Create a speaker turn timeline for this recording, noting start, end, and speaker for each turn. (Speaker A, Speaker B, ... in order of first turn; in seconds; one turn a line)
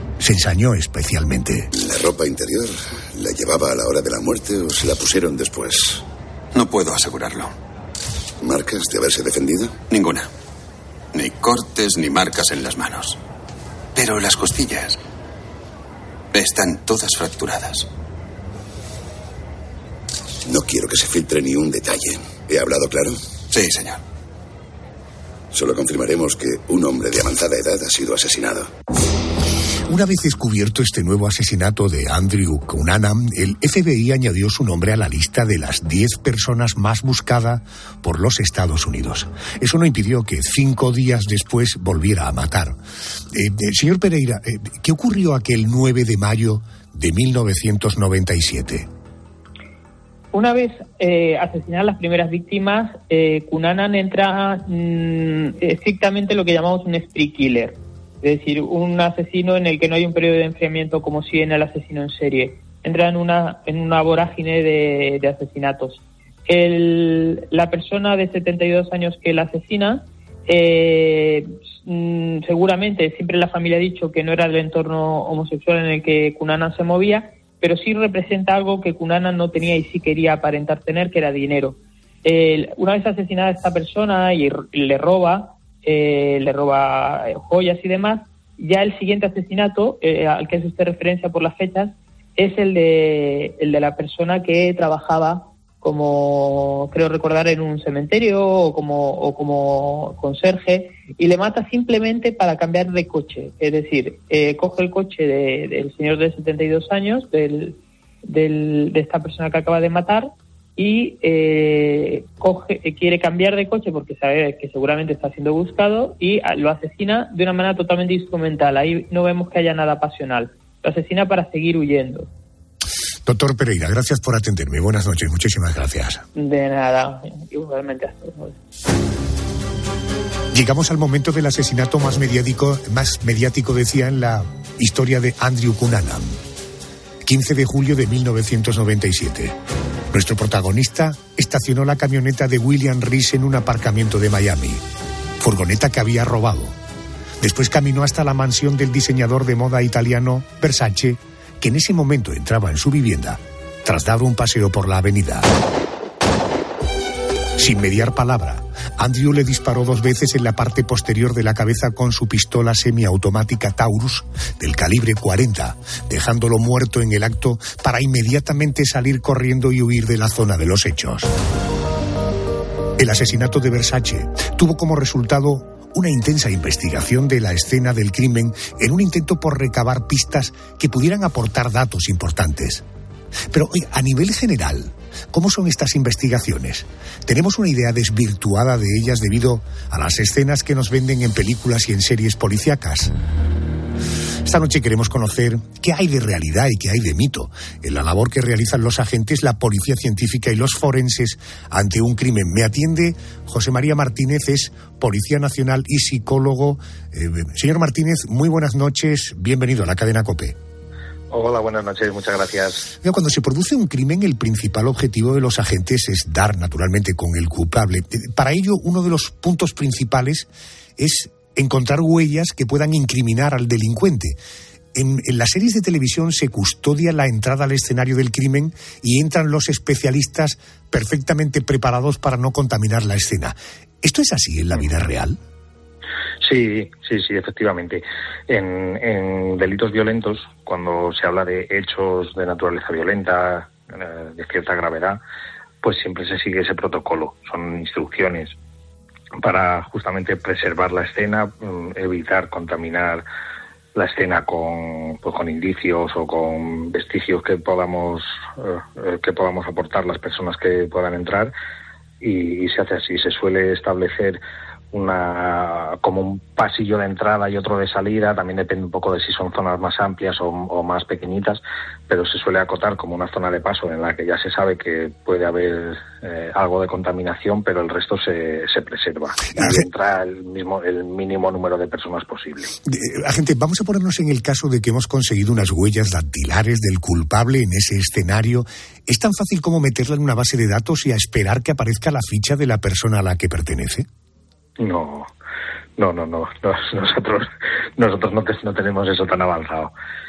Speaker A: 0.2-1.7
Speaker B: 1.8-6.0
Speaker C: 6.5-7.5
Speaker B: 8.4-9.8
Speaker C: 9.9-10.3
Speaker C: 11.1-13.2
Speaker C: 13.9-15.0
Speaker C: 16.3-17.9
Speaker B: 20.5-23.2
Speaker C: 23.5-24.0
Speaker B: 25.5-28.7
Speaker A: 29.9-42.8
Speaker A: 43.3-48.9
Speaker D: 50.3-122.3
Speaker A: 123.3-126.2
Speaker D: 126.3-128.6
Speaker A: 130.5-136.4
Speaker A: 137.2-139.6
Speaker A: 140.1-144.8
Speaker A: 145.4-146.8
Speaker A: 147.4-155.5
Speaker A: 157.6-171.3
Speaker A: 173.0-182.8
Speaker A: 183.5-193.1
Speaker A: 194.4-210.6
Speaker E: 211.3-212.9
Speaker A: 213.0-224.4
Speaker A: 224.9-235.4
Speaker E: 236.4-245.2
Speaker E: 245.8-248.6
Speaker E: 249.4-253.2
Speaker E: 253.9-261.5
Speaker E: 262.2-264.4
Speaker E: 264.9-282.7
Speaker A: 279.6-279.8
Speaker A: 282.8-294.1
Speaker E: 294.8-295.3
Speaker E: 296.0-299.9